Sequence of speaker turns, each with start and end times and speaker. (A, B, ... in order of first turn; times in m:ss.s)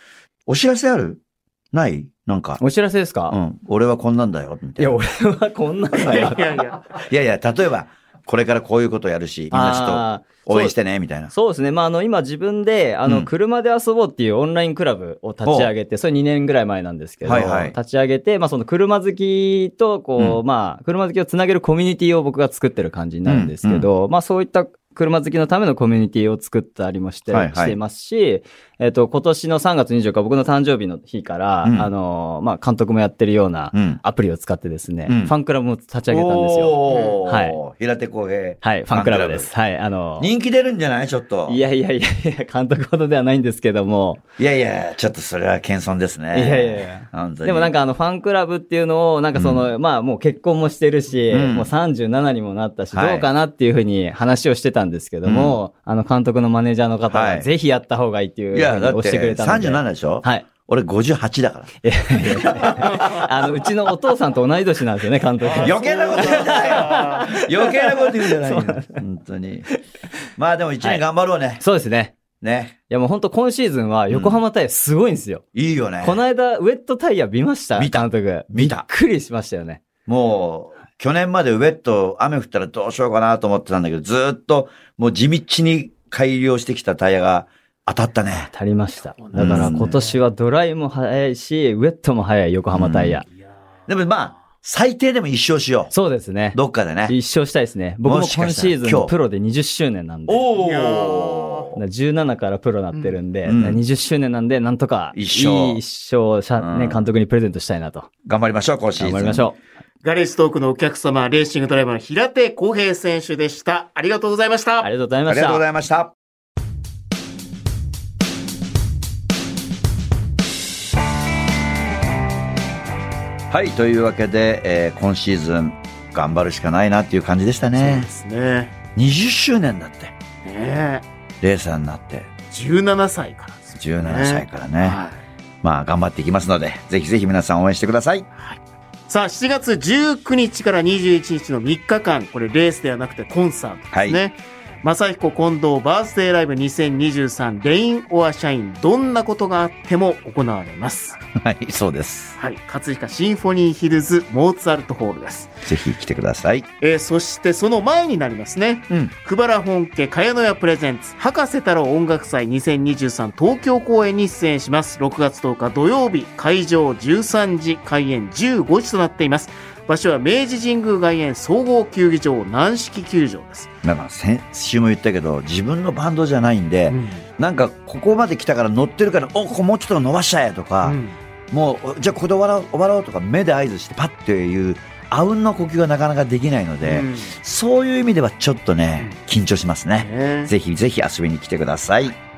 0:00.5-0:01.2 A
0:01.7-0:02.6 A
0:02.6-0:03.4 B
0:03.3-0:05.0 A
0:04.8-0:06.5 B
0:06.0-0:06.8 C
0:06.9-0:11.3 A
0:09.5-0:10.7 B
0:11.3-0:37.6 B
0:15.4-0:15.7 A
0:17.2-0:17.7 A
0:23.2-0:23.9 A
0:27.3-0:27.8 A
0:31.6-0:31.9 A
0:33.7-0:34.0 A
0:35.1-0:35.3 A
0:36.1-0:39.5 A
0:36.9-0:37.2 C
0:38.6-0:40.3 B
0:40.2-0:41.6 A
0:41.5-0:44.2 B
0:44.4-0:47.7 A
0:46.3-1:00.5 B
0:49.3-0:49.6 A
0:51.3-0:51.7 A
0:52.9-0:53.3 A
0:55.2-0:55.6 A
0:57.1-0:57.5 A
0:58.5-1:03.6 A
1:01.8-1:09.0 B
1:05.4-1:07.3 C
1:05.6-1:09.7 A
1:10.4-1:11.6 A
1:11.6-1:12.2 B
1:12.4-1:12.8 A
1:12.9-1:15.4 B
1:14.1-1:14.4 A
1:15.5-1:16.2 A
1:16.0-1:19.8 B
1:17.8-1:18.8 A
1:20.0-1:28.5 A
1:28.5-1:33.2 B
1:29.2-1:30.2 C
1:29.3-1:30.0 A
1:32.7-1:33.2 A
1:33.9-1:35.9 A
1:35.9-1:40.4 B
1:36.5-1:37.2 A
1:38.0-1:39.1 A
1:40.3-1:41.8 A
1:40.5-1:41.8 C
1:41.8-1:48.1 B
1:42.9-1:43.2 C
1:43.4-1:43.8 A
1:45.1-1:45.8 A
1:46.6-1:47.0 A
1:48.2-1:49.5 A
1:49.0-1:49.6 B
1:50.0-1:54.9 C
1:54.8-1:55.6 B
1:55.3-1:56.1 A
2:03.5-2:08.1 A
2:07.8-2:08.7 C
2:08.9-2:10.1 A
2:10.4-2:11.0 C
2:11.4-2:12.3 A
2:12.5-2:15.2 C
2:13.8-2:15.0 A
2:15.6-2:18.3 A
2:18.4-2:31.2 C
2:23.9-2:24.2 A
2:31.3-2:32.4 A
2:32.4-2:35.6 C
2:35.6-2:36.7 A
2:36.8-2:53.7 C
2:53.8-3:01.0 A
2:56.9-2:57.2 C
3:00.8-3:01.2 C
3:01.5-3:12.2 A
3:06.8-3:07.3 C
3:10.0-3:10.5 C